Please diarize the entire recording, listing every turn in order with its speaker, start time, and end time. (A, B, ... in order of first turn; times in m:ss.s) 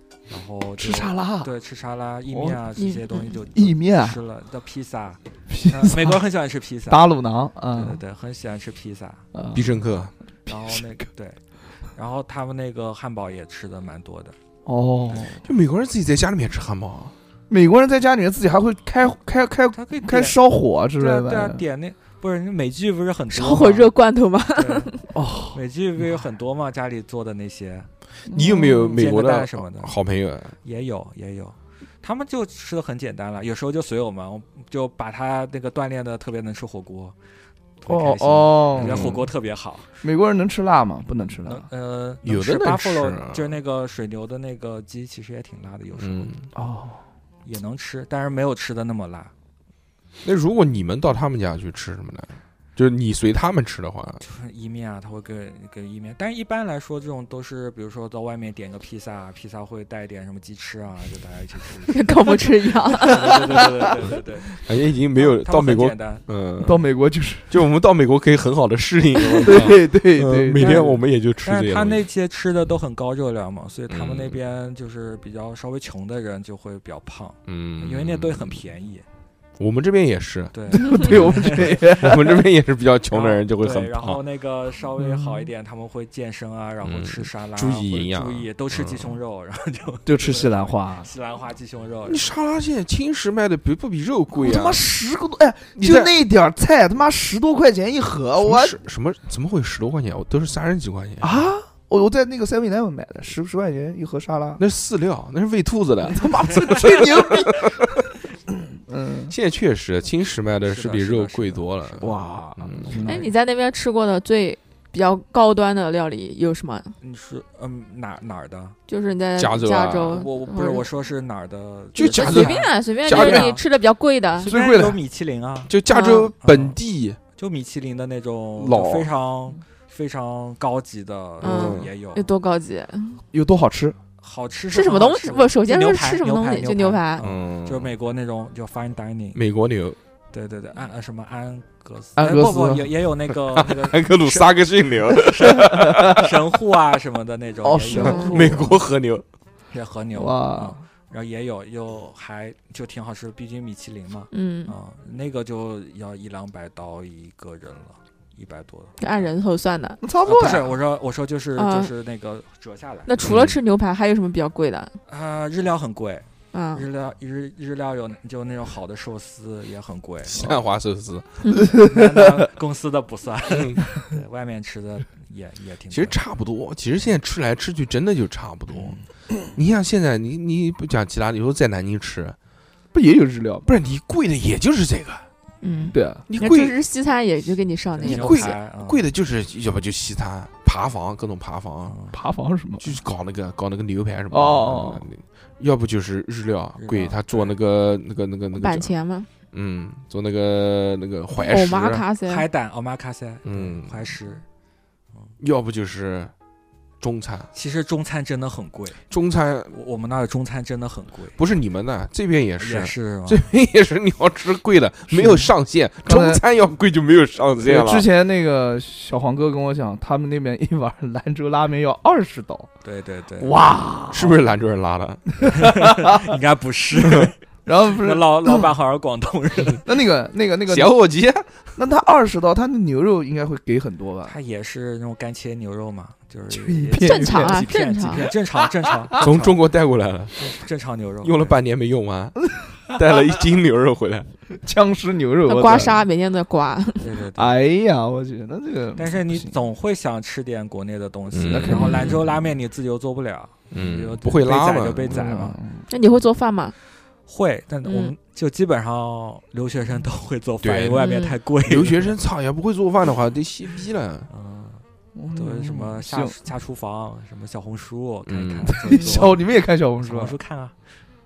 0:00.3-0:07.1 A
0:00.8-0:01.5 B
0:02.3-0:02.6 B
0:02.8-0:03.3 C
0:03.5-0:04.2 B
0:05.5-0:06.2 B
0:06.9-0:08.0 B
0:07.7-0:09.3 A
0:09.3-0:09.8 B
0:09.5-0:10.1 D
0:10.5-0:11.4 A
0:11.9-0:14.4 A
0:14.7-0:15.4 B
0:15.4-0:17.1 D
0:17.5-0:21.6 B
0:19.7-0:20.4 A
0:21.0-0:23.9 A
0:23.3-0:25.1 C
0:24.6-0:25.0 A
0:25.1-0:25.6 B
0:25.5-0:27.9 A
0:28.3-0:29.0 B
0:28.3-0:30.6 D
0:28.9-0:30.0 A
0:30.6-0:37.2 A
0:37.8-0:39.9 A
0:37.9-0:39.2 B
0:38.8-0:39.2 D
0:40.0-0:41.7 B
0:41.4-0:46.3 A
0:42.2-0:43.6 D
0:46.0-0:46.5 D
0:46.5-0:47.0 B
0:47.4-0:49.3 A
0:50.2-0:54.2 D
0:54.2-1:02.4 A
1:01.9-1:03.3 C
1:03.0-1:04.6 A
1:03.1-1:03.5 B
1:04.6-1:06.8 D
1:05.1-1:06.2 A
1:06.6-1:07.5 B
1:07.5-1:12.0 D
1:09.4-1:11.0 B
1:10.6-1:10.9 A
1:11.4-1:19.0 A
1:13.9-1:14.4 D
1:17.5-1:18.6 D
1:19.6-1:24.2 D
1:20.5-1:22.1 A
1:20.7-1:22.4 B
1:23.1-1:32.3 A
1:25.0-1:25.5 B
1:26.8-1:29.1 D
1:30.1-1:31.1 B
1:32.1-1:34.8 D
1:34.3-1:38.8 B
1:35.8-1:36.1 D
1:38.4-1:41.4 D
1:41.2-1:44.6 B
1:44.6-1:48.0 D
1:46.0-1:47.9 B
1:48.6-1:49.3 B
1:49.3-1:53.0 D
1:50.6-1:52.1 A
1:52.0-1:53.3 B
1:52.8-1:53.3 A
1:53.0-1:56.9 C
1:57.0-1:58.8 A
1:58.9-2:00.9 C
1:59.4-2:00.3 D
2:00.1-2:03.6 A
2:02.0-2:03.6 D
2:02.0-2:04.5 C
2:04.4-2:05.0 B
2:04.4-2:05.7 A
2:05.7-2:07.2 D
2:05.9-2:06.3 C
2:06.4-2:06.8 A
2:07.4-2:12.3 A
2:08.6-2:09.1 D
2:11.4-2:13.2 C
2:11.4-2:11.9 D
2:13.3-2:14.0 B
2:14.2-2:19.4 A
2:14.7-2:17.2 C
2:17.2-2:17.9 D
2:19.3-2:20.0 D
2:20.3-2:28.6 A
2:22.2-2:22.9 B
2:23.6-2:26.3 D
2:25.6-2:26.2 B
2:27.6-2:28.8 B
2:27.9-2:28.4 C
2:28.1-2:29.2 D
2:29.7-2:39.3 A
2:30.2-2:30.8 B
2:34.3-2:34.7 C
2:39.0-2:40.0 C
2:40.0-2:40.8 B
2:40.2-2:43.1 A
2:41.6-2:41.9 C
2:43.1-2:44.9 C
2:43.2-2:43.6 D
2:45.1-2:50.6 A
2:46.5-2:46.8 C
2:50.2-2:51.3 D
2:51.6-2:52.4 B
2:51.7-2:56.2 A
2:53.5-2:53.8 D
2:55.9-2:59.0 D
2:58.7-2:59.0 A
2:59.5-3:02.4 D
3:02.9-3:03.7 B
3:03.7-3:05.2 D
3:05.6-3:08.6 C
3:05.9-3:06.2 B
3:06.3-3:06.8 D
3:08.0-3:09.0 A
3:08.0-3:12.0 D
3:11.9-3:12.2 A
3:12.1-3:12.9 B
3:12.8-3:18.9 D
3:14.3-3:15.1 B
3:16.8-3:17.5 A
3:18.6-3:19.3 C
3:19.5-3:22.0 D
3:21.4-3:22.5 C
3:22.2-3:24.4 A
3:23.4-3:23.9 D
3:25.4-3:26.3 D
3:27.0-3:27.5 D
3:27.5-3:29.0 A
3:29.1-3:29.7 D
3:29.7-3:31.4 A
3:31.4-3:38.1 D
3:32.6-3:33.5 A
3:35.1-3:35.5 B
3:36.0-3:36.4 B
3:37.6-3:42.7 B
3:42.8-3:43.5 A
3:43.4-3:44.4 B
3:44.1-3:45.4 D
3:45.4-3:46.3 B
3:45.5-3:47.4 A
3:47.7-3:48.7 B
3:47.9-3:49.8 A
3:49.8-3:50.9 B
3:50.7-3:51.5 D
3:51.8-3:54.4 B
3:54.3-3:59.6 A
3:56.5-3:57.6 B
3:57.0-3:58.2 C
3:59.2-4:00.4 D
4:00.4-4:01.6 A
4:01.2-4:02.4 D
4:02.9-4:04.3 D
4:04.6-4:06.0 B
4:05.4-4:07.1 C
4:07.0-4:07.5 A
4:07.4-4:09.6 B
4:09.0-4:15.6 A
4:11.3-4:11.9 D
4:11.4-4:12.2 B
4:11.7-4:12.2 C
4:13.7-4:15.3 D
4:15.1-4:15.9 B
4:15.9-4:16.8 C
4:17.3-4:22.2 A
4:17.8-4:18.1 C
4:20.6-4:21.0 D
4:21.0-4:21.4 C
4:21.6-4:24.3 D
4:24.3-4:24.8 A
4:25.2-4:26.4 B
4:25.3-4:29.5 A
4:28.3-4:28.8 D
4:28.7-4:30.4 B
4:30.0-4:30.8 A